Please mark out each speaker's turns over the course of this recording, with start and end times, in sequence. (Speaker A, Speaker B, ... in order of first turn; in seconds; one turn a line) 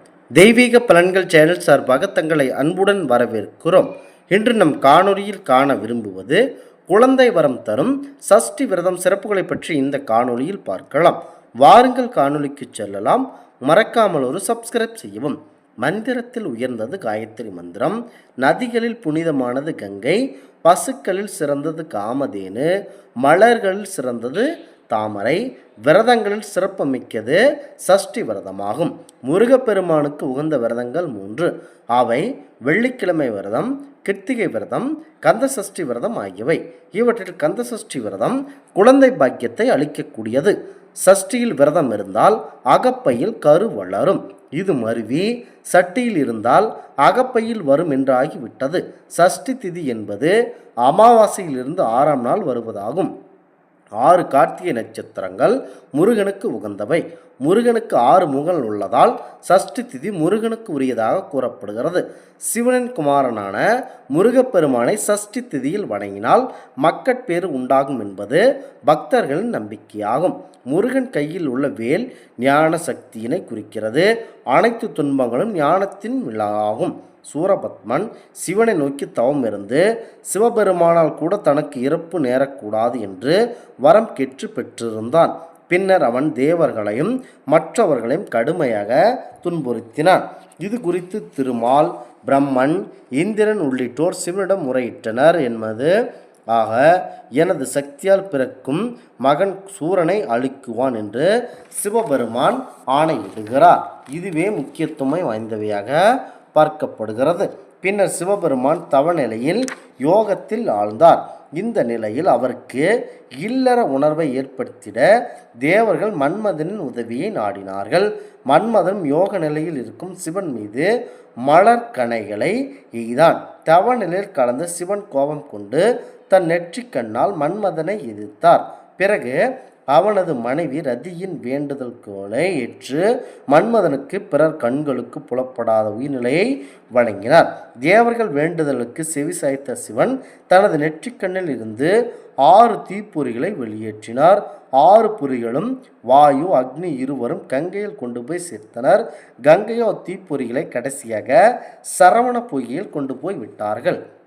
Speaker A: 0.4-22.7
Speaker A: 23.2-50.3
Speaker A: 50.8-53.1
Speaker A: 54.0-95.9
Speaker A: 96.5-106.0
Speaker A: 106.5-115.0
Speaker A: 115.6-120.9
Speaker A: 121.5-129.4
Speaker A: 129.9-141.9
Speaker A: 142.4-151.4
Speaker A: 151.9-154.0